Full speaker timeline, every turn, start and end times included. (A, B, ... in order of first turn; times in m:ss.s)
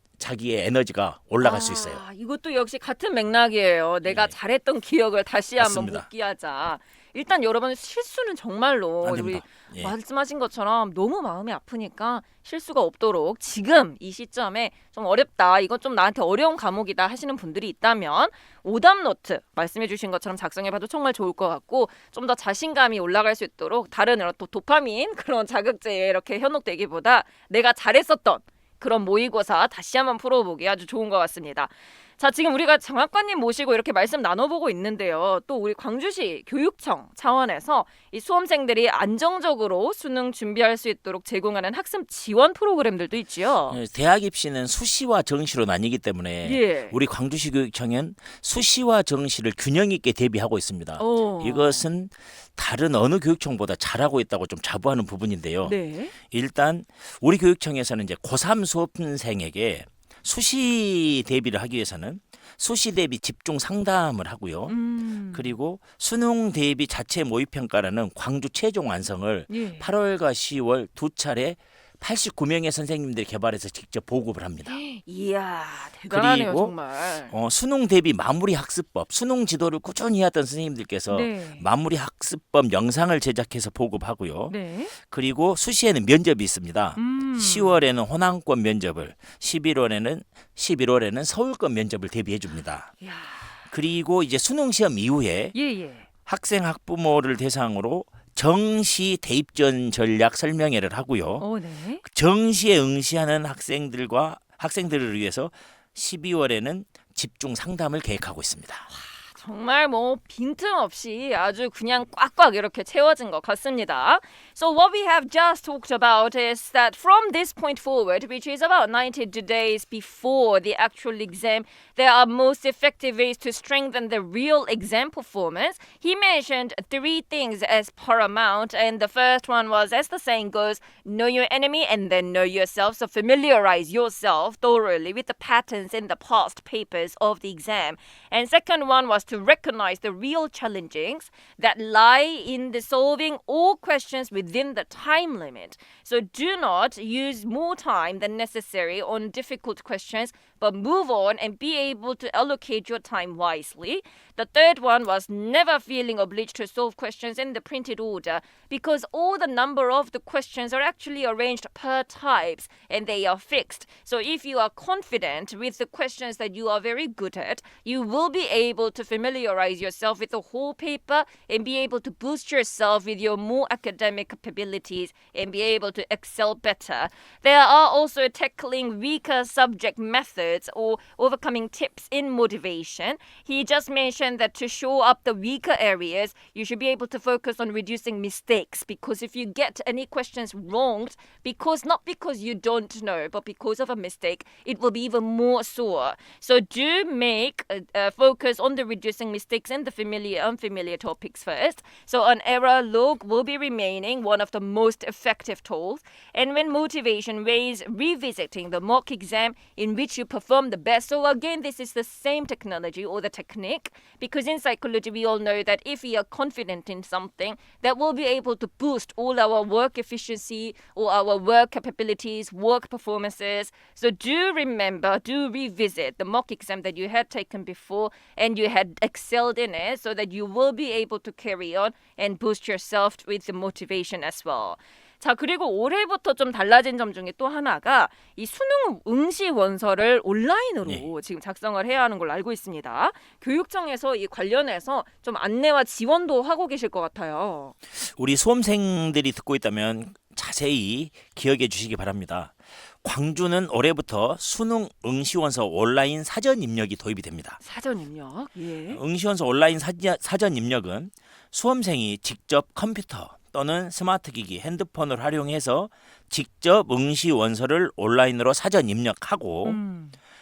0:00.2-0:02.0 A
0:01.4-0:43.8 B
0:04.0-0:04.3 A
0:05.6-0:06.1 A
0:09.0-0:09.9 A
0:43.7-1:04.8 A
0:46.4-0:47.0 B
0:51.0-0:51.9 B
0:55.6-0:56.1 B
1:04.7-1:05.5 B
1:05.3-1:14.8 A
1:09.5-1:09.9 B
1:14.6-1:17.3 B
1:16.0-1:16.7 A
1:17.3-1:32.9 A
1:21.1-1:21.6 B
1:24.5-1:24.9 B
1:27.0-1:27.8 B
1:33.0-1:33.6 B
1:33.7-1:35.5 A
1:35.5-1:36.0 B
1:36.2-1:41.4 A
1:41.4-1:42.0 B
1:42.0-1:48.9 A
1:48.9-4:07.8 B
4:08.0-4:17.6 A
4:17.6-4:19.0 B
4:18.9-4:29.8 A
4:29.6-4:30.2 B